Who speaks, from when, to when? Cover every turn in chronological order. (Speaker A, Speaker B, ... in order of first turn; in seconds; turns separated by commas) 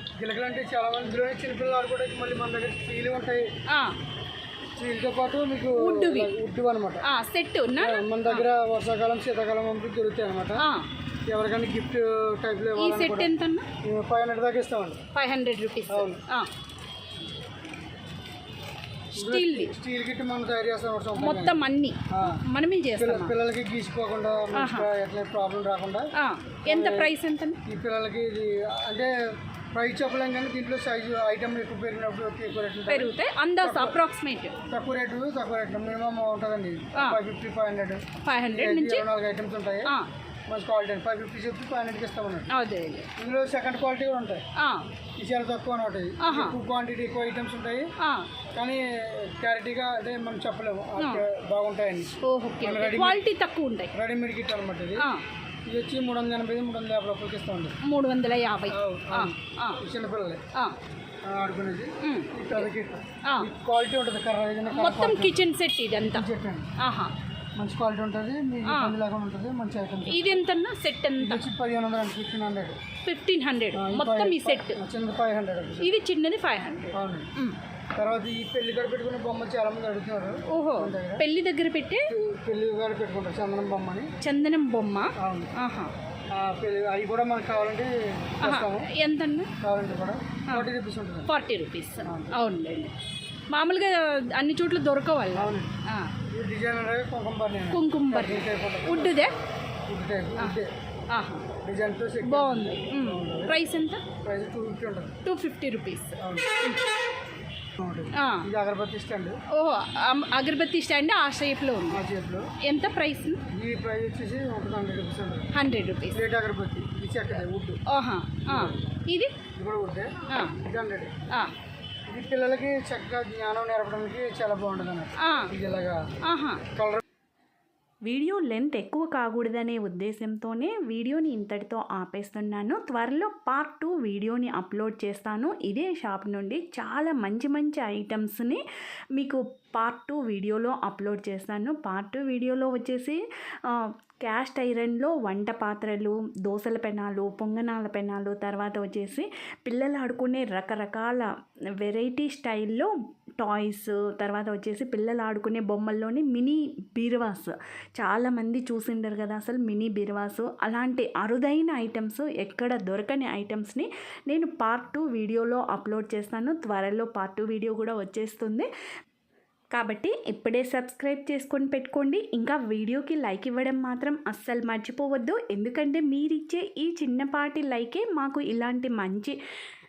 Speaker A: 0.2-3.5, Speaker B: 3.7-4.0, Speaker A: 4.8-7.0, Speaker B: 5.8-6.3, Speaker B: 7.0-8.4, Speaker A: 7.8-10.7, Speaker B: 10.6-10.9, Speaker A: 11.3-13.3, Speaker B: 12.8-13.7, Speaker A: 13.8-15.0, Speaker B: 15.1-16.5, Speaker A: 15.9-16.2, Speaker A: 19.1-22.4, Speaker B: 19.2-19.7, Speaker B: 21.2-23.3, Speaker A: 23.0-26.1, Speaker B: 24.5-24.9, Speaker B: 26.1-27.6, Speaker A: 26.7-27.1, Speaker A: 27.6-29.1, Speaker A: 29.7-34.0, Speaker B: 32.9-34.5, Speaker A: 34.7-39.9, Speaker B: 38.2-39.1, Speaker A: 40.5-42.5, Speaker B: 42.5-43.1, Speaker A: 43.1-44.4, Speaker B: 44.6-44.9, Speaker A: 45.2-47.9, Speaker B: 46.2-46.6, Speaker B: 48.0-48.3, Speaker A: 48.5-53.2, Speaker B: 51.0-51.2, Speaker B: 52.2-53.9, Speaker A: 53.9-55.1, Speaker B: 55.0-55.2, Speaker A: 55.7-57.8, Speaker B: 57.8-59.8, Speaker A: 58.7-60.4, Speaker A: 61.2-65.4, Speaker B: 62.0-62.6, Speaker B: 63.2-63.5, Speaker B: 64.7-66.2, Speaker A: 66.1-66.7, Speaker B: 66.8-67.1, Speaker A: 67.6-70.4, Speaker B: 68.7-69.0, Speaker B: 70.0-71.4, Speaker A: 71.2-72.8, Speaker B: 73.0-74.8, Speaker A: 73.7-75.9, Speaker B: 75.8-77.5, Speaker A: 76.9-77.3, Speaker A: 77.9-81.2, Speaker B: 80.5-82.0, Speaker A: 82.1-84.1, Speaker B: 84.2-85.9, Speaker A: 85.2-85.5, Speaker A: 86.3-88.9, Speaker B: 88.4-89.5, Speaker A: 89.6-91.3, Speaker B: 91.3-92.9, Speaker A: 92.0-92.3, Speaker B: 93.5-96.1, Speaker A: 95.3-95.8, Speaker A: 96.3-99.3, Speaker B: 97.7-99.3, Speaker A: 99.9-100.7, Speaker B: 101.1-101.5, Speaker A: 101.6-103.5, Speaker B: 102.2-104.0, Speaker A: 104.2-105.2, Speaker B: 105.2-106.8, Speaker A: 106.2-106.5, Speaker A: 107.8-109.4, Speaker B: 108.1-108.5, Speaker B: 109.5-112.0, Speaker A: 111.9-112.5, Speaker B: 112.6-113.4, Speaker A: 113.5-115.5, Speaker B: 115.5-116.2, Speaker A: 116.1-117.8, Speaker B: 117.9-119.3, Speaker A: 118.5-118.8, Speaker A: 119.5-121.1, Speaker B: 120.3-120.6, Speaker A: 122.1-126.1, Speaker B: 125.2-125.5, Speaker B: 126.2-126.6, Speaker A: 126.7-127.0, Speaker C: 128.0-138.6, Speaker C: 139.1-168.7, Speaker C: 169.7-179.3